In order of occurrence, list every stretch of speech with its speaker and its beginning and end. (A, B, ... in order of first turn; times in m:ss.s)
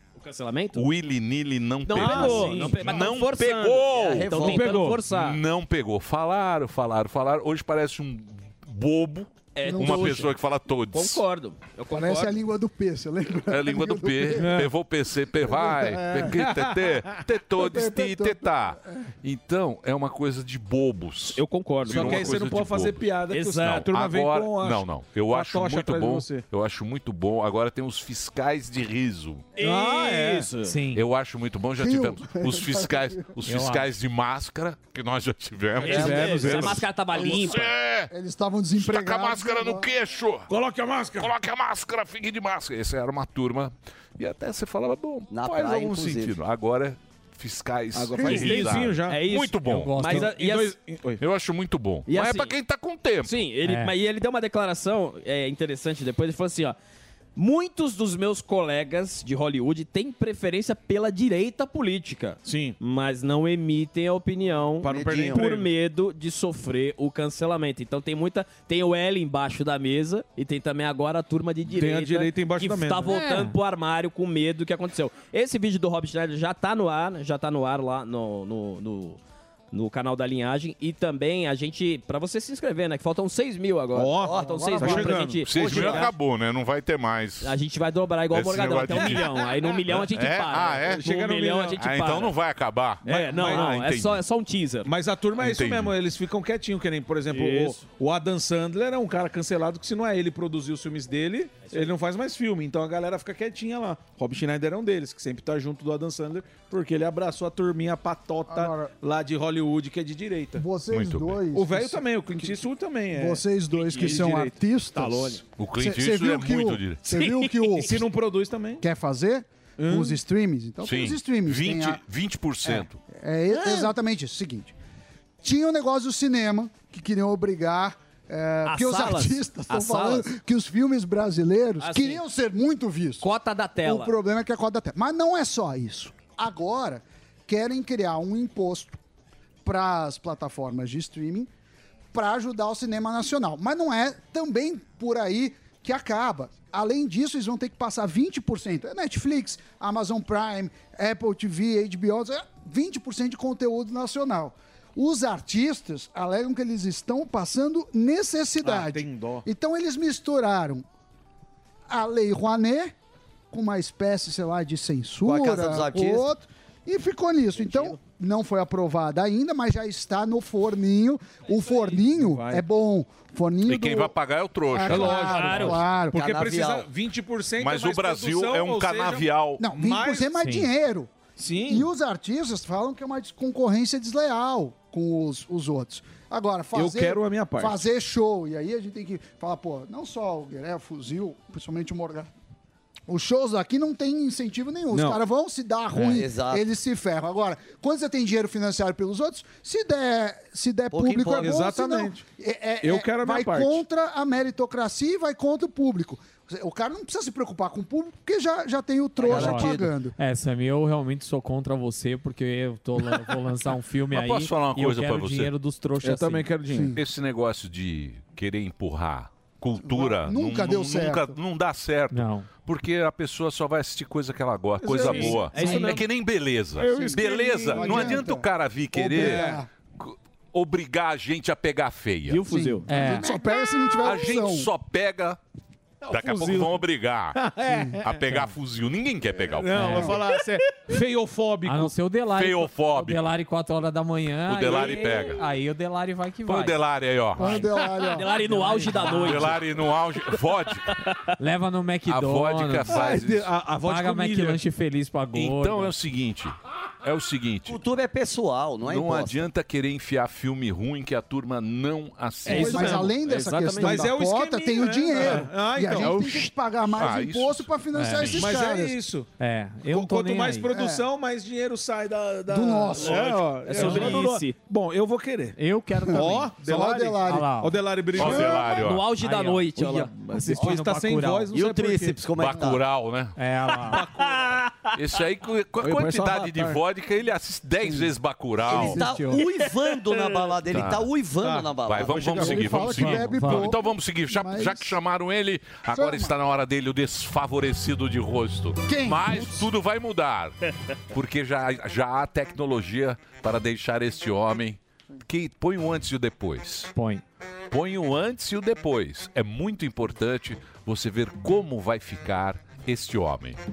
0:00.2-0:00.9 A
0:00.8-0:11.2 B
0:01.9-0:05.4 A
0:01.9-0:03.1 C
0:04.3-0:05.1 C
0:09.6-0:10.4 A
0:09.7-0:10.2 D
0:10.9-0:12.4 A
0:11.9-0:14.7 D
0:13.5-0:29.5 B
0:14.3-0:14.7 C
0:15.4-0:16.4 D
0:16.2-0:17.2 C
0:17.5-0:19.1 D
0:21.3-0:22.5 A
0:21.8-0:26.5 C
0:23.3-0:23.9 A
0:29.6-0:30.5 A
0:29.6-0:30.8 C
0:30.6-0:31.0 E
0:30.9-0:38.1 B
0:31.8-0:33.4 D
0:33.4-0:33.9 E
0:35.8-0:37.7 A
0:36.0-0:36.7 C
0:36.0-0:36.2 F
0:37.1-0:39.9 D
0:38.8-0:40.5 B
0:40.5-0:41.4 C
0:41.2-0:50.0 B
0:45.3-0:46.4 F
0:47.9-0:49.3 C
0:48.2-0:48.6 D
0:48.2-0:50.8 A
0:49.7-0:50.3 E
0:50.0-0:51.2 C
0:51.2-0:53.4 B
0:52.1-0:52.6 A
0:53.2-0:56.8 A
0:53.6-0:53.9 E
0:57.4-1:19.2 A
1:02.4-1:02.8 C
1:04.8-1:05.7 C
1:04.8-1:05.5 F
1:11.7-1:13.2 C
1:13.1-1:13.6 E
1:19.7-1:26.1 A
1:23.9-1:26.0 C
1:24.2-1:26.1 F
1:24.4-1:25.2 D
1:25.4-1:27.5 B
1:27.4-1:32.4 A
1:28.3-1:31.2 B
1:29.0-1:30.0 C
1:30.8-1:31.8 C
1:31.8-1:34.2 B
1:33.0-1:33.9 C
1:33.0-1:34.9 A
1:34.8-1:50.6 C
1:35.4-1:36.0 B
1:37.3-1:37.8 A
1:48.5-1:48.9 D
1:50.6-1:58.1 D
1:50.9-1:51.4 B
1:51.5-1:55.4 C
1:55.6-1:57.2 B
1:57.6-1:58.8 C
1:58.8-2:02.0 D
1:59.8-2:00.2 C
2:00.8-2:03.0 B
2:02.7-2:04.8 D
2:05.4-2:13.3 D
2:08.6-2:10.3 A
2:11.8-2:12.2 A
2:13.2-2:14.1 A
2:13.8-2:19.0 D
2:19.6-2:21.5 D
2:22.1-2:40.9 D
2:38.6-2:39.5 C
2:41.9-2:42.9 D
2:43.5-2:54.2 D
2:45.2-2:46.3 F
2:51.9-2:52.6 C
2:53.7-2:55.4 B
2:54.7-2:56.2 D
2:54.8-3:00.3 C
2:55.2-2:55.8 A
2:56.1-2:56.9 F
2:57.6-2:59.6 B
2:59.6-3:01.1 D
3:00.4-3:00.7 E
3:01.4-3:01.9 C
3:01.6-3:12.3 D
3:06.7-3:07.8 C
3:13.1-3:30.2 D
3:14.9-3:15.2 C
3:16.0-3:16.6 F
3:20.9-3:21.6 F
3:21.4-3:22.2 C
3:22.8-3:23.8 C
3:29.2-3:36.5 E
3:29.3-3:29.8 F
3:34.1-3:35.5 B
3:36.0-3:37.0 C
3:36.7-3:37.0 D
3:36.9-3:52.4 B
3:39.8-3:41.4 D
3:42.1-3:42.5 E
3:44.8-3:46.0 C
3:45.0-3:46.0 A
3:45.6-3:45.9 E
3:46.8-3:48.3 C
3:46.9-3:49.7 D
3:49.0-3:49.6 C
3:52.3-3:52.9 A
3:52.5-3:54.7 D
3:52.9-3:53.3 E
3:54.0-3:55.4 B
3:56.0-3:58.2 C
3:56.1-4:00.2 B
3:57.7-3:58.0 D
3:58.3-3:58.5 E
3:59.4-4:01.9 C
3:59.7-4:00.2 E
4:01.6-4:06.8 E
4:02.3-4:03.2 B
4:04.4-4:05.4 B
4:04.8-4:05.2 C
4:06.5-4:07.6 B
4:07.4-4:07.7 E
4:07.4-4:08.3 D
4:08.0-4:09.6 A
4:08.2-4:09.5 E
4:09.1-4:10.9 B
4:10.3-4:11.3 A
4:11.4-4:13.2 E
4:12.1-4:13.5 B
4:12.9-4:14.6 C
4:13.8-4:15.9 E
4:15.3-4:17.8 B
4:17.7-4:19.5 F
4:18.8-4:23.0 B
4:22.4-4:23.2 C
4:22.5-4:29.0 D
4:22.5-4:24.1 A
4:23.8-4:26.5 C
4:26.9-4:28.5 B
4:28.0-4:28.4 E
4:28.3-4:29.3 C
4:29.4-4:30.7 E
4:29.9-4:35.6 C
4:30.7-4:31.1 D
4:32.5-4:33.4 D
4:33.6-4:34.6 A
4:33.8-4:34.2 E
4:35.6-4:36.5 E
4:36.1-4:37.5 D
4:36.1-4:38.9 C
4:37.2-4:37.8 E
4:38.1-4:39.1 B
4:38.3-4:40.1 A
4:39.2-4:41.5 E
4:39.8-4:42.3 C
4:41.5-4:42.8 F
4:42.4-4:43.4 B
4:43.4-4:44.1 E
4:43.8-4:44.7 C
4:44.4-4:44.9 A
4:44.9-4:49.0 B
4:45.8-4:46.8 C
4:48.6-4:52.5 F
4:48.7-4:49.5 E
4:50.7-4:51.1 B
4:51.4-4:53.0 C
4:51.8-5:00.6 B
4:52.4-4:55.0 D
4:53.0-4:53.7 E
4:55.9-4:56.4 D
4:58.9-4:59.7 D
5:01.1-5:06.9 B
5:06.9-5:07.2 E
5:07.7-5:13.6 B